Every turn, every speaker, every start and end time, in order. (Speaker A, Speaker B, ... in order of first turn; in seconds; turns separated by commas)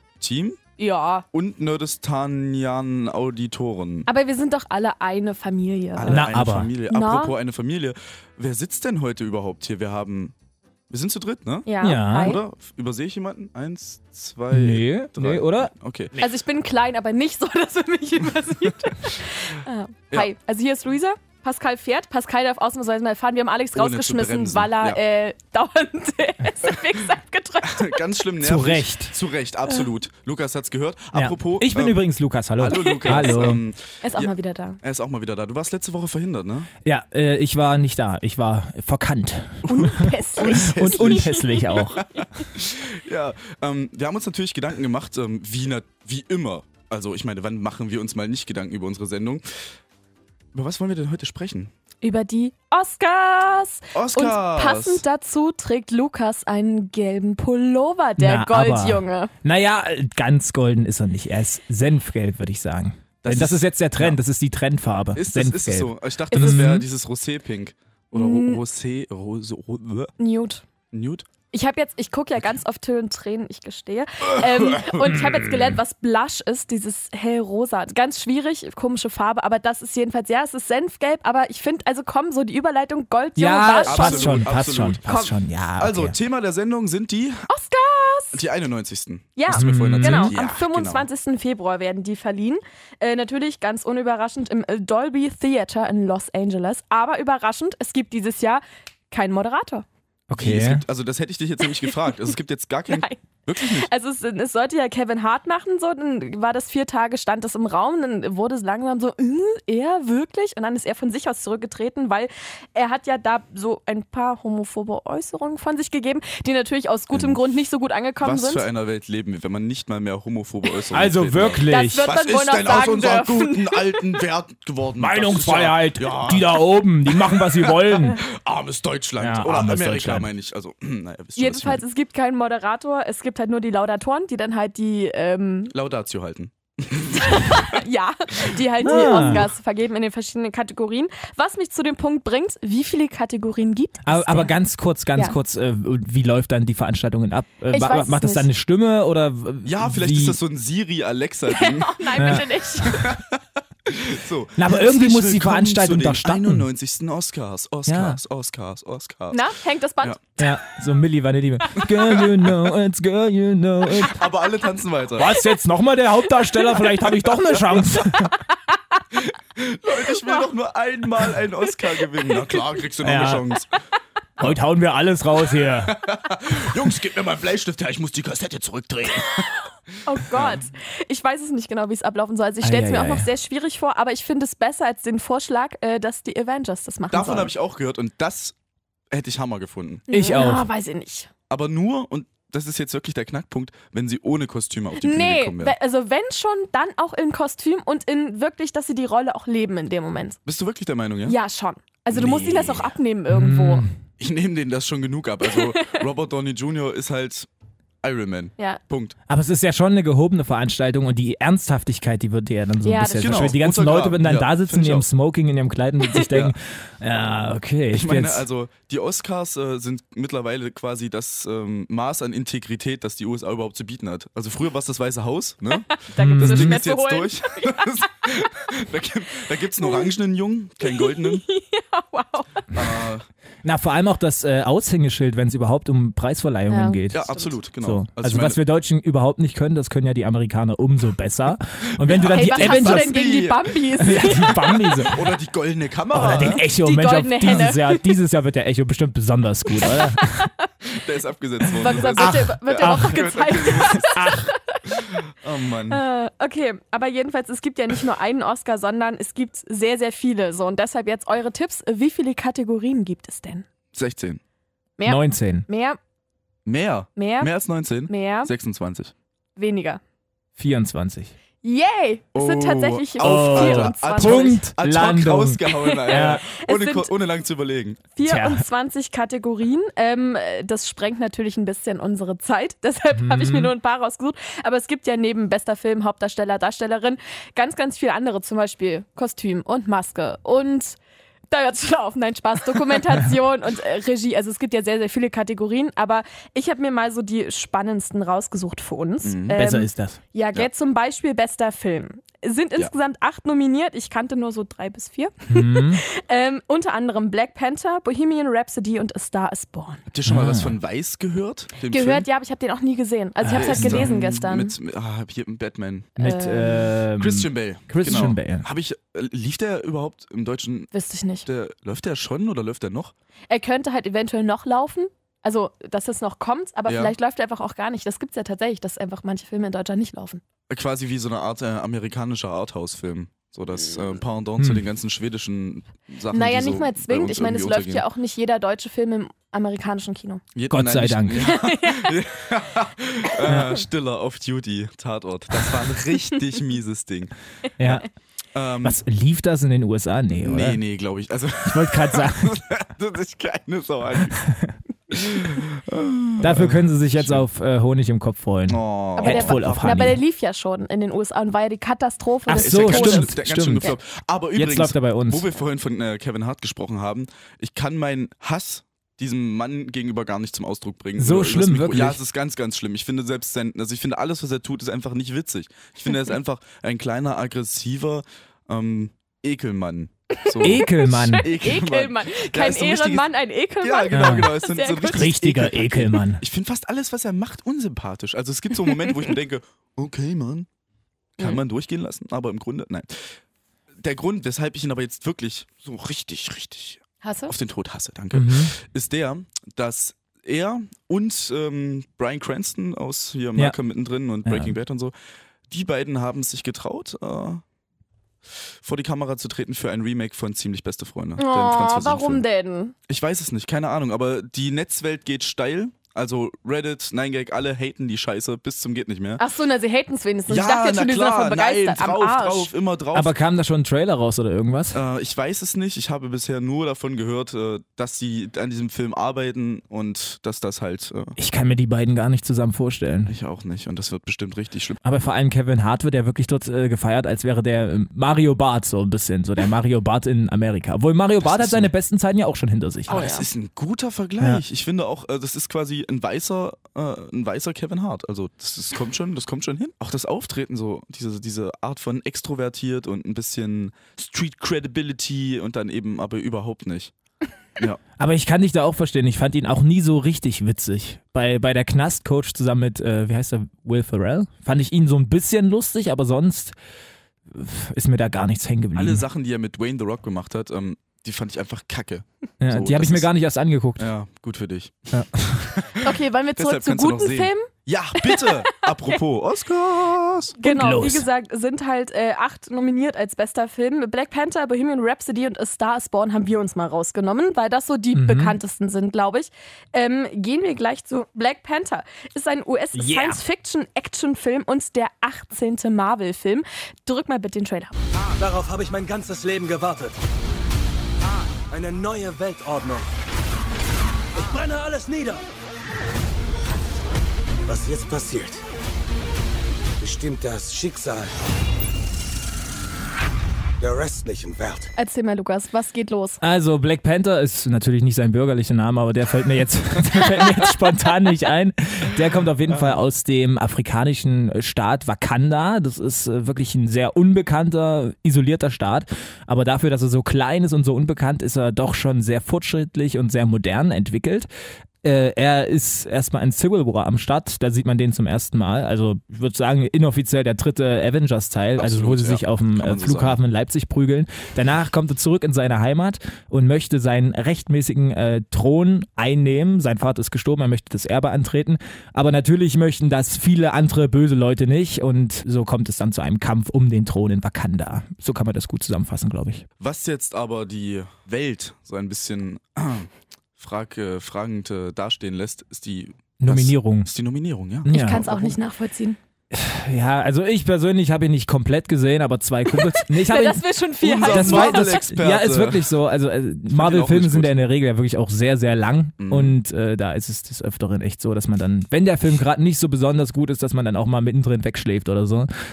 Speaker A: 0.2-0.6, Speaker B: 0.8-1.2, Speaker A: 1.3-4.1, Speaker B: 4.1-6.3, Speaker A: 5.9-10.3, Speaker C: 6.1-6.7, Speaker B: 6.9-7.3, Speaker A: 10.9-16.2, Speaker B: 11.7-12.4, Speaker C: 11.8-12.3, Speaker C: 14.5-15.7, Speaker B: 16.2-28.0, Speaker A: 23.7-25.0, Speaker A: 27.6-32.0, Speaker C: 28.4-29.1, Speaker C: 31.1-33.6, Speaker A: 32.6-36.7, Speaker B: 32.6-34.8, Speaker C: 36.8-39.9, Speaker A: 39.6-49.6, Speaker B: 39.7-42.3, Speaker C: 40.5-42.0, Speaker A: 50.5-51.7, Speaker B: 52.0-59.3, Speaker A: 53.9-55.0, Speaker C: 58.2-66.8, Speaker A: 63.2-64.2, Speaker A: 65.1-70.1, Speaker B: 66.3-66.8, Speaker B: 68.1-68.6, Speaker B: 70.2-70.6, Speaker A: 70.9-71.3, Speaker B: 71.5-84.4, Speaker A: 74.3-75.1, Speaker C: 75.3-75.7, Speaker C: 83.4-86.2, Speaker A: 83.8-87.5, Speaker B: 87.5-88.4, Speaker A: 88.3-91.1, Speaker B: 89.4-99.8, Speaker C: 89.5-90.3, Speaker C: 100.3-100.8, Speaker A: 100.3-103.9, Speaker B: 101.6-102.1, Speaker B: 102.9-118.6, Speaker A: 117.1-117.4, Speaker A: 118.2-131.8, Speaker C: 120.9-122.0, Speaker B: 121.7-124.1, Speaker C: 125.0-128.2, Speaker C: 129.2-130.3, Speaker B: 131.4-135.7, Speaker A: 135.7-137.8, Speaker B: 137.2-144.5, Speaker C: 138.8-139.4, Speaker A: 138.9-139.4, Speaker C: 144.1-150.4, Speaker B: 147.7-148.5, Speaker A: 149.6-159.4, Speaker B: 151.5-153.1, Speaker C: 154.6-156.6, Speaker C: 157.9-158.2, Speaker B: 159.3-160.4, Speaker C: 160.4-164.2, Speaker A: 162.1-162.7, Speaker A: 163.9-165.3, Speaker C: 165.2-168.3, Speaker A: 167.2-168.3, Speaker A: 169.1-173.7, Speaker B: 170.1-170.5, Speaker B: 172.0-172.6, Speaker C: 173.0-173.4, Speaker C: 174.4-175.9, Speaker A: 175.8-179.7, Speaker B: 180.0-187.5, Speaker A: 180.3-180.6, Speaker C: 182.6-183.3, Speaker A: 187.1-188.5, Speaker A: 189.1-190.0, Speaker C: 190.1-190.7, Speaker B: 190.1-191.3, Speaker A: 191.5-195.8, Speaker B: 195.0-200.4, Speaker A: 200.4-201.4, Speaker B: 201.2-203.8, Speaker A: 202.1-202.9, Speaker C: 203.3-203.9, Speaker A: 204.2-207.5, Speaker B: 205.5-206.0, Speaker A: 208.0-209.2, Speaker C: 209.3-218.4, Speaker B: 212.8-213.5, Speaker A: 213.2-215.1, Speaker A: 216.3-216.6, Speaker A: 217.9-231.4, Speaker B: 225.9-228.1, Speaker C: 226.2-226.8, Speaker B: 229.8-230.1, Speaker B: 230.8-232.7, Speaker A: 232.7-233.2, Speaker C: 233.6-237.3, Speaker B: 236.7-237.5, Speaker A: 237.1-238.6, Speaker C: 237.8-243.2, Speaker A: 242.0-246.6, Speaker B: 242.2-244.8, Speaker C: 244.0-245.1, Speaker C: 246.1-250.3, Speaker B: 246.4-248.2, Speaker B: 249.8-250.7, Speaker A: 250.9-254.2, Speaker B: 251.8-255.1, Speaker C: 252.2-254.5, Speaker A: 255.4-256.0, Speaker B: 255.9-263.6, Speaker A: 263.9-264.4, Speaker B: 265.0-266.0, Speaker C: 265.1-265.6, Speaker A: 266.6-269.1, Speaker B: 267.2-267.5, Speaker B: 268.1-268.5, Speaker B: 269.6-270.0, Speaker C: 270.6-271.3, Speaker B: 271.6-274.6, Speaker A: 272.3-278.0, Speaker C: 273.2-276.4, Speaker B: 275.7-277.1, Speaker B: 278.1-291.0, Speaker C: 278.2-278.6, Speaker C: 283.1-283.7, Speaker B: 291.5-310.0, Speaker A: 299.2-299.6, Speaker C: 299.5-300.2, Speaker C: 305.5-306.0, Speaker A: 310.1-312.3, Speaker C: 310.2-310.7, Speaker B: 311.9-314.7, Speaker C: 313.4-314.1, Speaker A: 313.6-316.1, Speaker B: 316.2-316.8, Speaker C: 316.2-318.6, Speaker A: 317.2-320.9, Speaker B: 320.9-321.5, Speaker A: 321.4-323.1, Speaker B: 323.5-330.4, Speaker A: 326.9-327.1, Speaker A: 330.7-338.0, Speaker B: 336.3-340.4, Speaker A: 340.5-349.0, Speaker C: 340.7-341.5, Speaker B: 341.4-342.2, Speaker C: 347.8-348.0, Speaker C: 348.8-350.8, Speaker A: 350.3-354.4, Speaker C: 351.6-352.5, Speaker C: 354.5-354.8, Speaker A: 355.1-357.4, Speaker C: 356.4-360.2, Speaker A: 358.7-360.2, Speaker B: 359.2-363.9, Speaker C: 362.5-363.9, Speaker A: 362.5-390.7, Speaker C: 364.5-365.5, Speaker C: 371.2-372.2, Speaker B: 380.4-385.3, Speaker C: 380.6-381.4, Speaker C: 384.1-384.5, Speaker C: 385.0-386.4, Speaker A: 391.4-393.4, Speaker A: 394.0-405.1, Speaker B: 397.2-397.5, Speaker C: 398.3-398.7, Speaker C: 404.4-404.7, Speaker A: 405.7-407.6, Speaker A: 408.8-412.4, Speaker B: 411.4-412.9, Speaker A: 413.1-419.4, Speaker B: 419.4-422.7, Speaker A: 420.5-423.4, Speaker C: 423.1-425.0, Speaker A: 424.9-431.4, Speaker C: 431.4-433.3, Speaker A: 433.3-435.0, Speaker C: 435.0-443.1, Speaker A: 441.4-441.9, Speaker B: 443.1-443.5, Speaker A: 443.1-457.1, Speaker C: 458.2-466.7, Speaker C: 467.5-469.2, Speaker A: 468.9-473.3, Speaker C: 472.6-474.1, Speaker A: 474.0-480.6, Speaker B: 476.0-479.2, Speaker B: 480.6-498.0, Speaker C: 480.6-481.2, Speaker C: 488.1-488.6, Speaker C: 492.9-493.4, Speaker D: 498.4-500.2, Speaker D: 501.7-503.1, Speaker D: 504.4-505.4, Speaker D: 507.6-508.6, Speaker D: 510.0-511.3, Speaker D: 513.8-514.9, Speaker B: 515.0-516.4, Speaker C: 516.4-534.5, Speaker A: 522.7-523.0, Speaker C: 535.0-559.6, Speaker A: 541.8-543.4, Speaker A: 559.8-568.5, Speaker C: 566.4-567.1, Speaker C: 567.9-568.2, Speaker B: 567.9-569.2, Speaker C: 569.5-573.6, Speaker B: 572.8-575.0, Speaker A: 574.0-575.9, Speaker C: 574.2-585.5, Speaker A: 576.7-577.6, Speaker A: 579.2-579.6